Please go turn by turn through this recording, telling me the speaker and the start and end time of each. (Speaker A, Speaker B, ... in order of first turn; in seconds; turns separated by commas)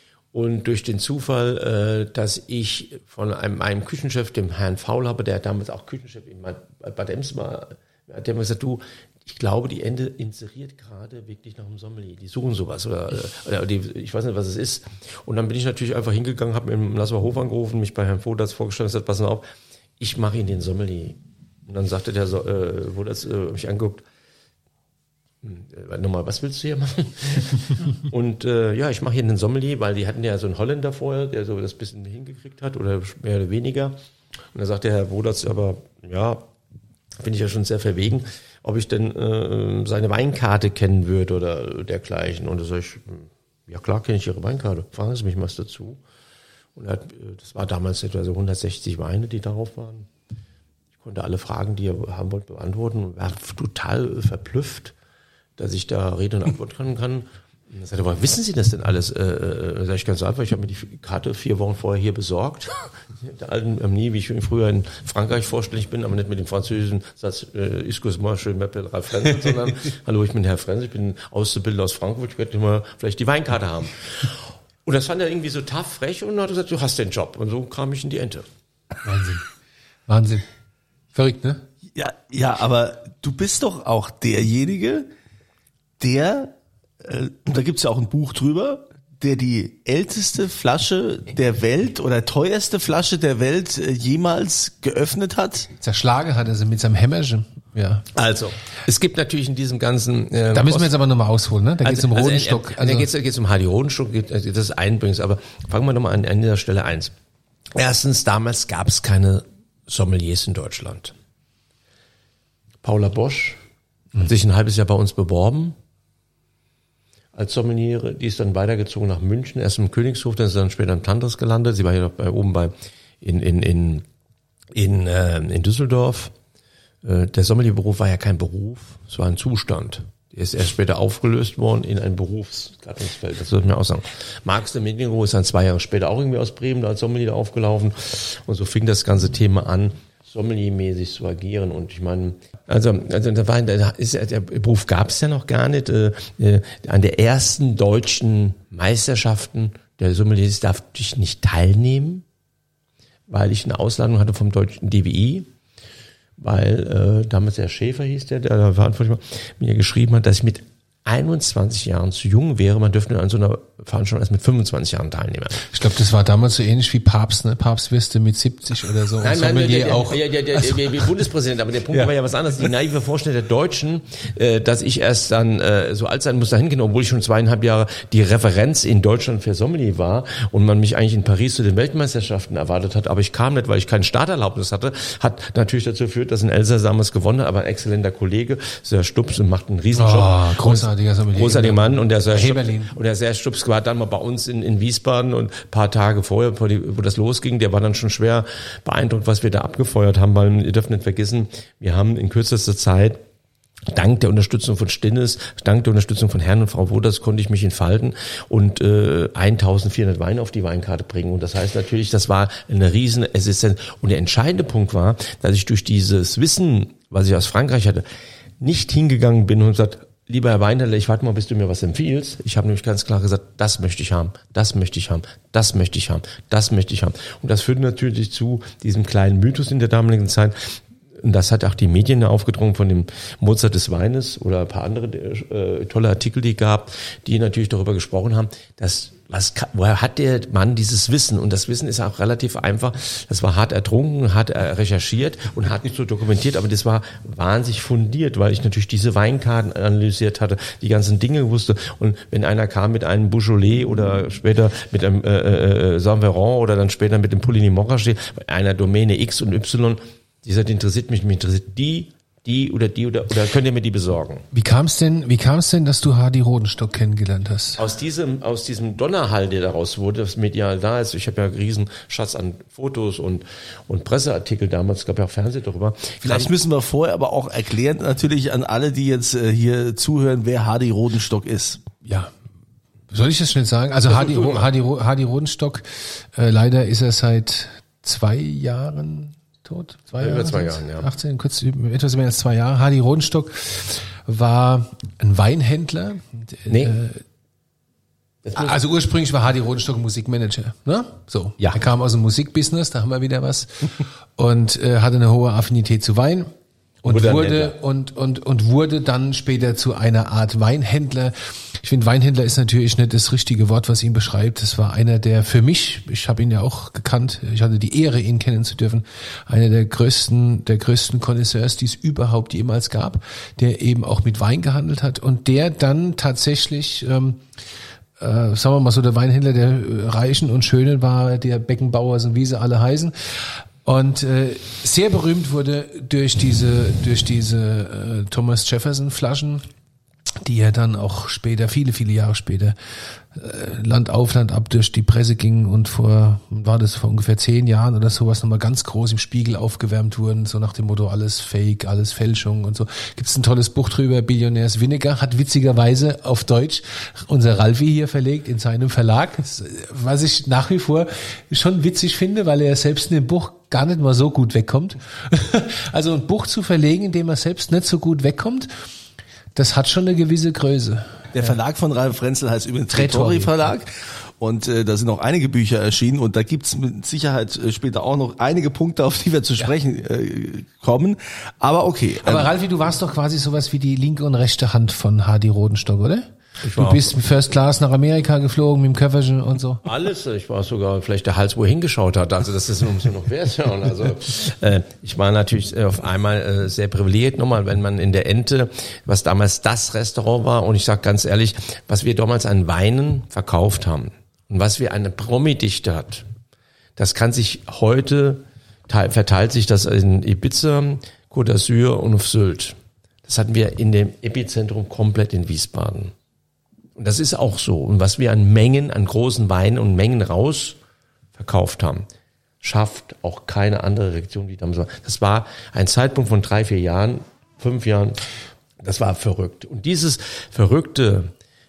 Speaker A: 0.3-19.4, Speaker A: 20.0-24.0, Speaker A: 25.4-33.9, Speaker A: 34.5-36.4, Speaker A: 37.2-46.0, Speaker A: 46.7-50.1, Speaker A: 51.0-54.9, Speaker A: 55.6-78.5, Speaker B: 79.0-79.5, Speaker B: 80.1-80.5, Speaker B: 81.1-81.6, Speaker C: 81.9-85.1, Speaker C: 86.0-95.7, Speaker B: 95.8-98.0, Speaker A: 98.1-100.9, Speaker B: 100.5-103.1, Speaker A: 101.8-107.1, Speaker A: 107.7-111.1, Speaker A: 112.8-113.6, Speaker A: 114.2-115.8, Speaker A: 117.3-124.0, Speaker A: 124.7-126.3, Speaker A: 127.0-152.2, Speaker A: 153.3-155.5, Speaker A: 156.4-165.7, Speaker B: 165.7-170.2, Speaker A: 169.2-203.2, Speaker B: 189.9-192.9, Speaker A: 203.9-218.0, Speaker A: 218.6-264.4, Speaker B: 264.5-267.8, Speaker A: 267.8-276.5, Speaker C: 276.2-281.8, Speaker B: 282.0-282.3, Speaker B: 283.1-297.2, Speaker A: 284.1-284.7, Speaker A: 290.2-291.1, Speaker A: 296.7-297.0, Speaker A: 298.4-298.8, Speaker B: 298.5-306.5, Speaker B: 307.0-327.4, Speaker A: 307.1-307.7, Speaker B: 328.2-339.6, Speaker B: 340.4-342.7, Speaker B: 343.3-368.7, Speaker B: 369.5-371.5, Speaker C: 371.3-382.5, Speaker B: 372.9-373.7, Speaker B: 382.2-389.8, Speaker A: 386.6-387.2, Speaker A: 389.8-406.2, Speaker A: 406.9-416.1, Speaker A: 416.9-420.8, Speaker A: 421.4-422.1, Speaker A: 422.6-428.2, Speaker A: 428.8-431.3